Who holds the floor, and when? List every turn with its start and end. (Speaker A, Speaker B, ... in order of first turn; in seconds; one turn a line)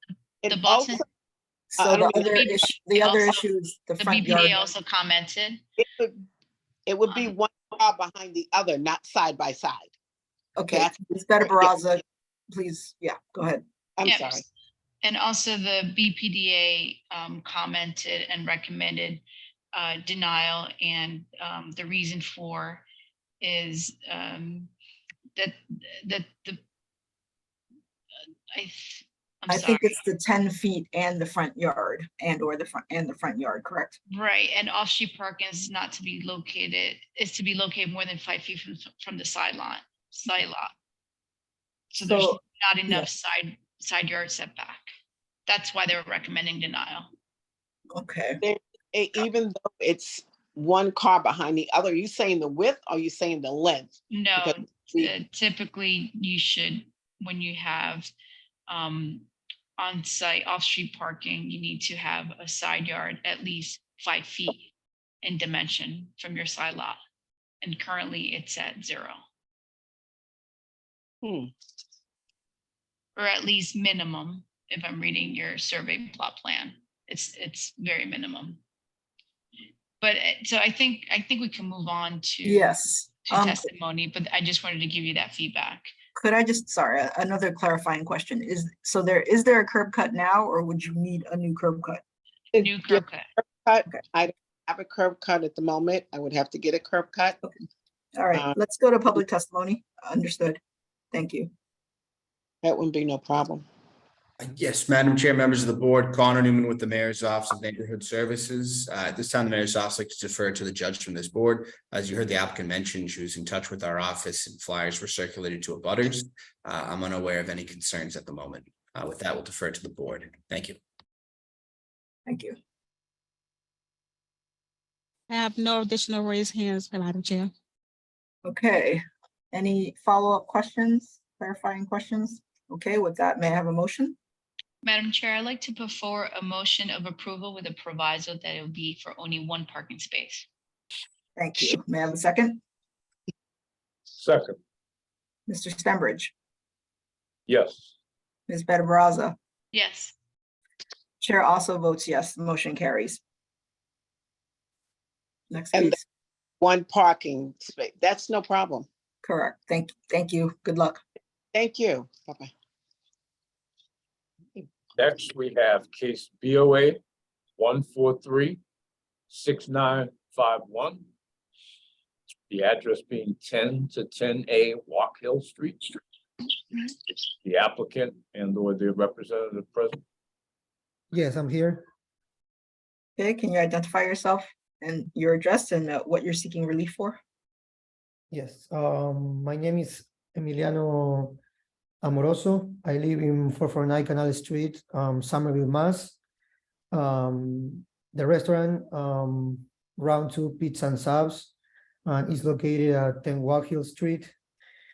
Speaker A: 0.4-1.0
Speaker B: 0.5-1.0
Speaker C: 1.7-4.7
Speaker A: 1.8-2.3
Speaker B: 2.2-3.4
Speaker B: 4.0-5.6
Speaker A: 5.8-6.2
Speaker A: 6.9-9.9
Speaker B: 7.1-7.3
Speaker C: 10.6-13.6
Speaker A: 10.7-11.7
Speaker A: 14.0-14.4
Speaker B: 14.0-14.4
Speaker B: 15.0-22.8
Speaker B: 23.4-24.7
Speaker B: 25.4-26.6
Speaker B: 28.5-30.0
Speaker C: 29.5-34.0
Speaker B: 34.1-40.7
Speaker B: 41.9-44.8
Speaker C: 42.0-43.1
Speaker B: 45.5-47.1
Speaker C: 47.9-48.4
Speaker A: 48.4-55.1
Speaker B: 54.1-58.1
Speaker B: 58.7-59.2
Speaker B: 59.8-64.7
Speaker B: 65.2-67.0
Speaker B: 67.6-69.2
Speaker A: 71.2-71.5
Speaker B: 73.2-78.6
Speaker B: 80.0-82.7
Speaker C: 82.4-83.7
Speaker B: 83.3-85.9
Speaker C: 86.2-92.0
Speaker A: 92.5-97.4
Speaker B: 92.6-93.2
Speaker C: 98.1-100.6
Speaker C: 101.1-101.5
Speaker A: 102.6-103.6
Speaker D: 104.4-120.8
Speaker C: 122.3-122.5
Speaker E: 125.3-127.5
Speaker C: 128.4-134.2
Speaker B: 134.8-140.4
Speaker C: 141.3-142.6
Speaker F: 144.2-144.6
Speaker C: 145.5-146.3
Speaker F: 147.5-147.9
Speaker C: 148.5-149.3
Speaker B: 149.7-150.1
Speaker C: 151.2-153.2
Speaker C: 155.5-156.0
Speaker A: 156.6-158.8
Speaker C: 159.2-161.0
Speaker A: 161.5-162.5
Speaker F: 164.9-167.0
Speaker F: 167.6-168.6
Speaker F: 169.3-171.1
Speaker F: 172.5-176.0
Speaker F: 177.4-180.0
Speaker G: 181.1-181.9
Speaker C: 183.2-187.2
Speaker G: 188.3-191.4
Speaker G: 192.0-196.2
Speaker G: 196.9-201.5
Speaker G: 202.1-204.3